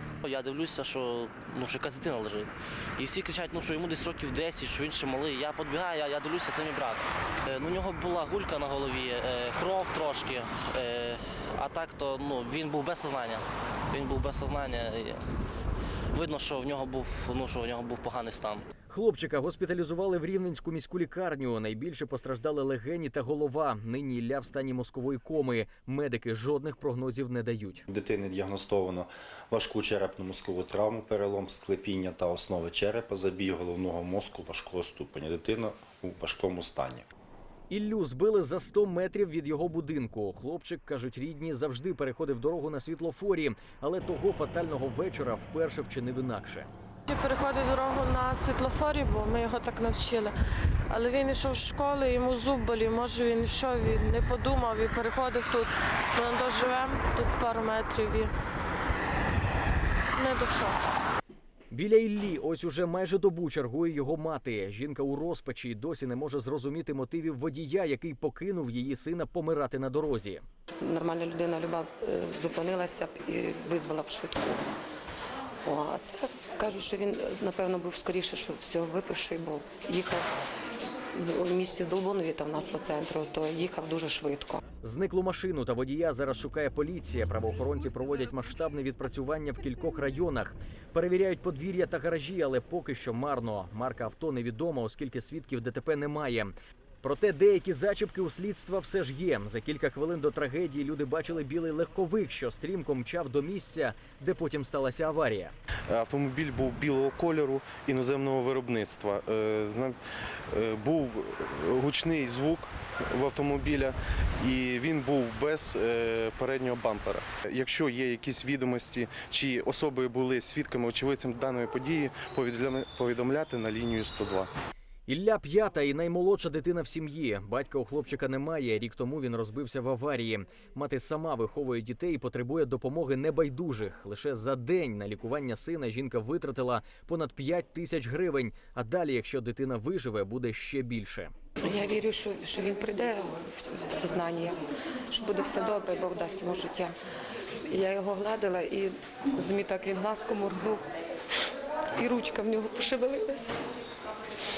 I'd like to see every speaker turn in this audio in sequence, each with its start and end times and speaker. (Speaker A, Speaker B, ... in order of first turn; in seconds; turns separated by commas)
Speaker A: 0.2-15.2, Speaker A: 16.1-18.6, Speaker B: 18.9-27.8, Speaker C: 27.9-37.1, Speaker B: 37.7-46.7, Speaker D: 47.1-50.3, Speaker D: 50.9-58.3, Speaker D: 60.1-60.8, Speaker B: 61.7-70.4, Speaker E: 70.8-74.7, Speaker E: 75.6-80.3, Speaker E: 81.1-84.6, Speaker B: 84.8-105.5, Speaker F: 105.9-110.0, Speaker F: 110.5-124.5, Speaker B: 125.1-141.3, Speaker E: 141.6-144.6, Speaker E: 145.1-146.9, Speaker E: 147.7-150.8, Speaker E: 152.0-153.6